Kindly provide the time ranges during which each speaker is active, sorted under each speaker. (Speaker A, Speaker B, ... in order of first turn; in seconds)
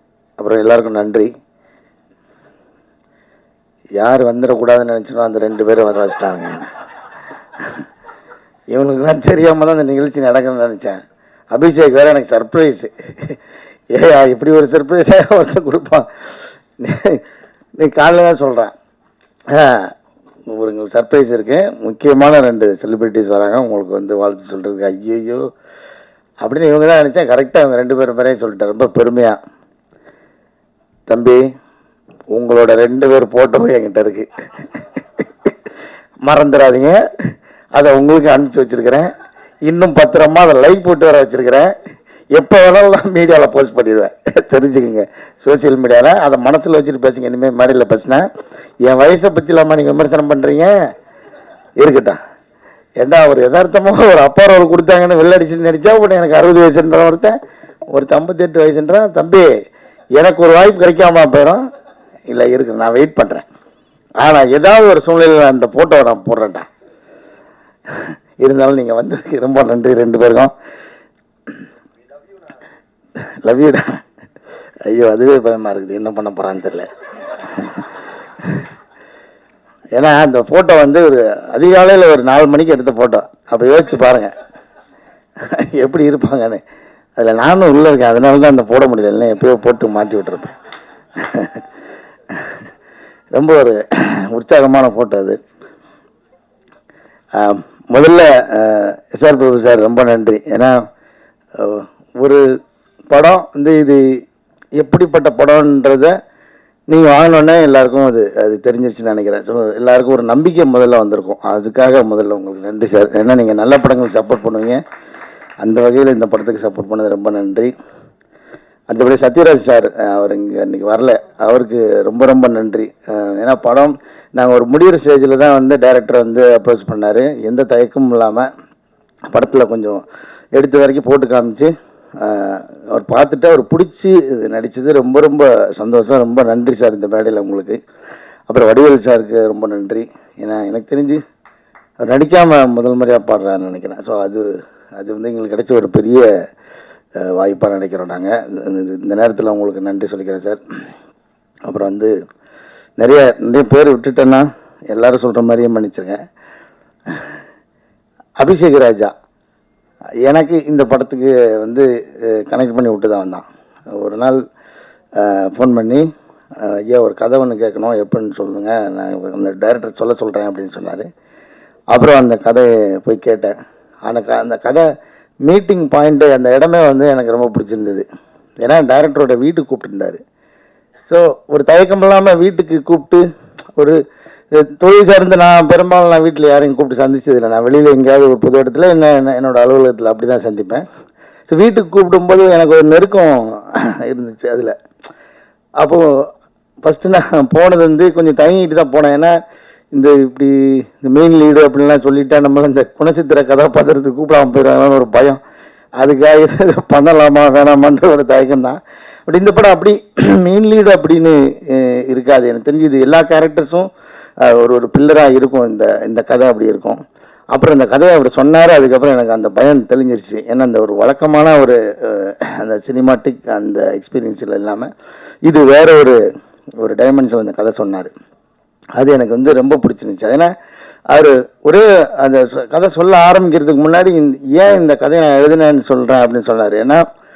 Speaker A: 0.4-1.3, 4.0-6.7, 8.7-11.0, 11.5-13.4, 13.9-16.1, 16.8-17.2, 17.8-18.7, 19.5-19.9, 20.5-25.4, 26.4-29.4, 31.1-31.4, 32.3-35.5, 36.2-37.0, 37.8-39.1, 39.7-41.8, 42.4-48.3, 48.9-50.7, 51.8-52.2, 53.0-57.4, 57.9-59.5, 60.2-61.6, 62.3-63.5, 64.2-66.7, 67.9-70.5, 73.3-74.0, 74.9-77.9, 79.9-84.3, 85.4-86.6, 87.2-90.5, 91.2-91.6, 92.3-92.7, 93.3-95.4, 97.3-100.8, 101.6-102.4, 103.1-104.0, 104.8-106.1, 106.9-114.8, 115.6-117.7, 118.9-128.5, 129.3-130.0, 130.6-137.8, 138.5-141.2, 142.0-146.3, 147.2-150.6, 151.7-152.1, 153.0-156.2, 158.4-159.1, 160.2-163.4, 164.0-164.4, 165.2-166.1, 166.6-171.1, 171.9-173.5, 174.1-174.9, 175.4-178.1, 178.6-180.2, 181.1-183.2, 184.5-190.9, 191.5-194.8, 195.8-196.3, 196.8-199.3, 199.9-205.4, 206.0-213.9, 214.4-217.0, 217.5-224.9, 225.5-226.2, 226.8-228.1, 229.0-230.5, 231.1-237.0